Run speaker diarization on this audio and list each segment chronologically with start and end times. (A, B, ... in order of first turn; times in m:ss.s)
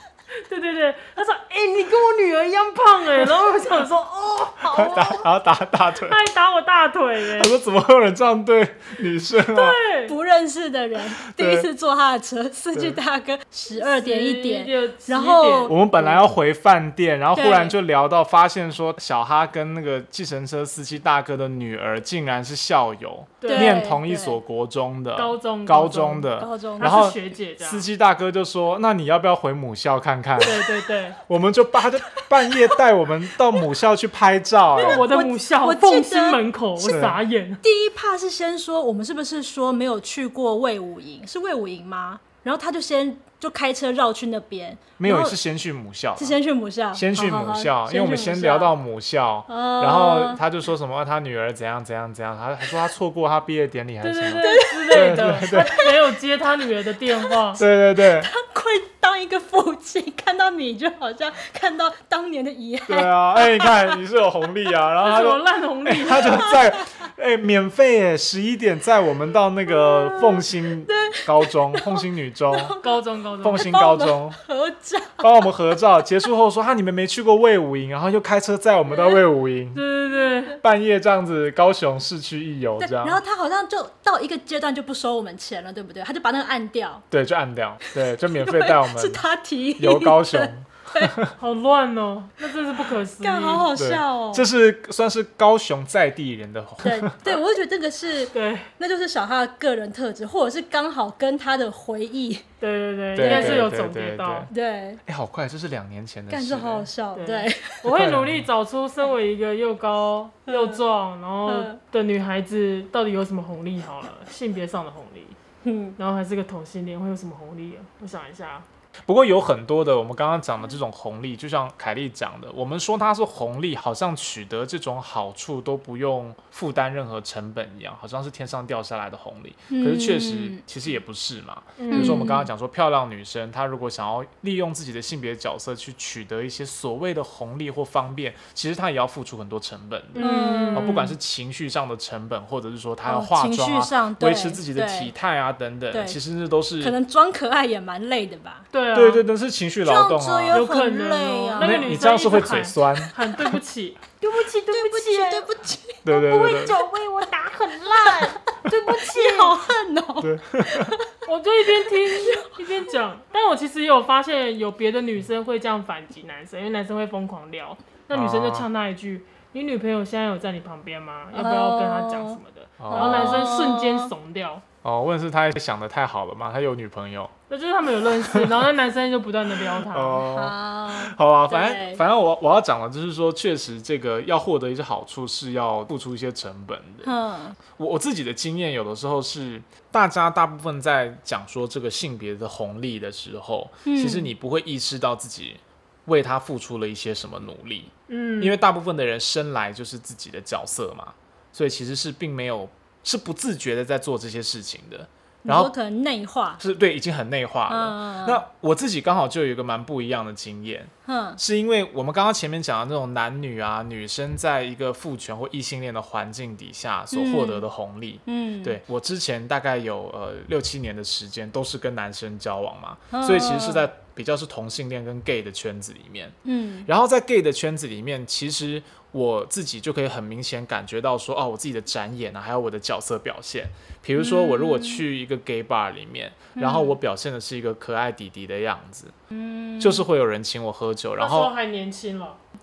0:00.5-0:05.2 A
0:04.7-0:06.2 B
0:06.1-0:07.6 A
0:07.4-0:09.8 B
0:09.5-0:10.2 A
0:10.1-0:16.2 C
0:11.3-0:11.7 B
0:13.8-0:15.8 A
0:15.7-0:30.6 B
0:17.4-0:17.8 C
0:23.4-0:23.8 A
0:23.5-0:24.4 C
0:25.2-0:27.9 A
0:26.4-0:27.0 C
0:30.4-0:31.2 A
0:31.3-0:35.0 B
0:32.2-0:32.7 C
0:34.8-0:37.0 C
0:34.8-0:37.6 A
0:36.8-0:37.2 B
0:37.6-0:45.4 C
0:45.0-0:46.4 B
0:46.2-0:48.7 C
0:46.9-0:55.8 B
0:49.5-0:50.4 C
0:54.0-0:57.6 A
0:54.4-0:55.9 C
0:57.2-1:04.0 C
0:57.6-0:58.3 B
1:02.9-1:12.8 B
1:05.0-1:06.5 A
1:06.1-1:06.9 C
1:09.7-1:15.3 C
1:12.8-1:13.8 A
1:13.4-1:14.4 B
1:15.2-1:19.8 B
1:18.9-1:19.2 C
1:19.7-1:20.6 A
1:20.6-1:23.2 B
1:22.8-1:27.1 C
1:27.1-1:29.2 B
1:27.8-1:31.2 C
1:29.8-1:31.3 B
1:31.4-1:33.7 A
1:33.2-1:34.5 C
1:33.8-1:37.4 B
1:36.8-1:42.4 C
1:38.3-1:38.7 A
1:42.6-1:44.5 A
1:43.2-1:44.5 B
1:43.2-1:43.7 C
1:44.5-1:45.0 C
1:45.0-1:46.9 B
1:46.3-1:47.9 C
1:47.2-1:55.4 A
1:47.9-1:48.5 B
1:50.5-1:50.8 C
1:51.5-1:51.8 C
1:55.6-1:56.0 C
1:56.0-1:58.7 A
1:59.1-2:27.0 B
2:09.7-2:10.6 C
2:11.8-2:12.2 A
2:11.9-2:12.5 C
2:20.1-2:21.1 A
2:20.2-2:21.1 C
2:23.1-2:25.1 C
2:25.9-2:26.2 C
2:26.8-2:28.7 C
2:28.7-2:29.2 A
2:28.9-2:30.7 B
2:29.8-2:32.1 C
2:30.5-2:35.5 A
2:31.6-2:33.2 B
2:34.6-2:36.1 C
2:36.0-2:36.8 B
2:36.1-2:39.5 A
2:38.0-2:41.2 C
2:40.2-2:40.9 B
2:41.3-2:54.6 A
2:42.0-2:42.7 C
2:48.1-2:48.7 B
2:51.3-2:54.1 C
2:52.8-2:53.6 B
2:54.8-2:57.3 B
2:57.5-3:00.3 A
2:58.2-2:58.6 B
2:59.7-3:07.1 B
3:00.3-3:02.0 C
3:07.0-3:07.6 C
3:07.7-3:25.7 B
3:13.9-3:14.3 C
3:18.1-3:18.6 A
3:25.4-3:26.6 C
3:26.6-3:46.4 B
3:27.7-3:28.4 C
3:31.1-3:31.4 C
3:37.1-3:37.6 C
3:38.3-3:38.8 C
3:43.1-3:43.9 C
3:46.4-3:46.9 C
3:46.9-3:59.1 B
3:54.2-3:55.0 C
3:56.6-3:57.0 C
3:59.3-4:00.1 C
3:59.8-4:01.5 B
4:01.2-4:02.4 A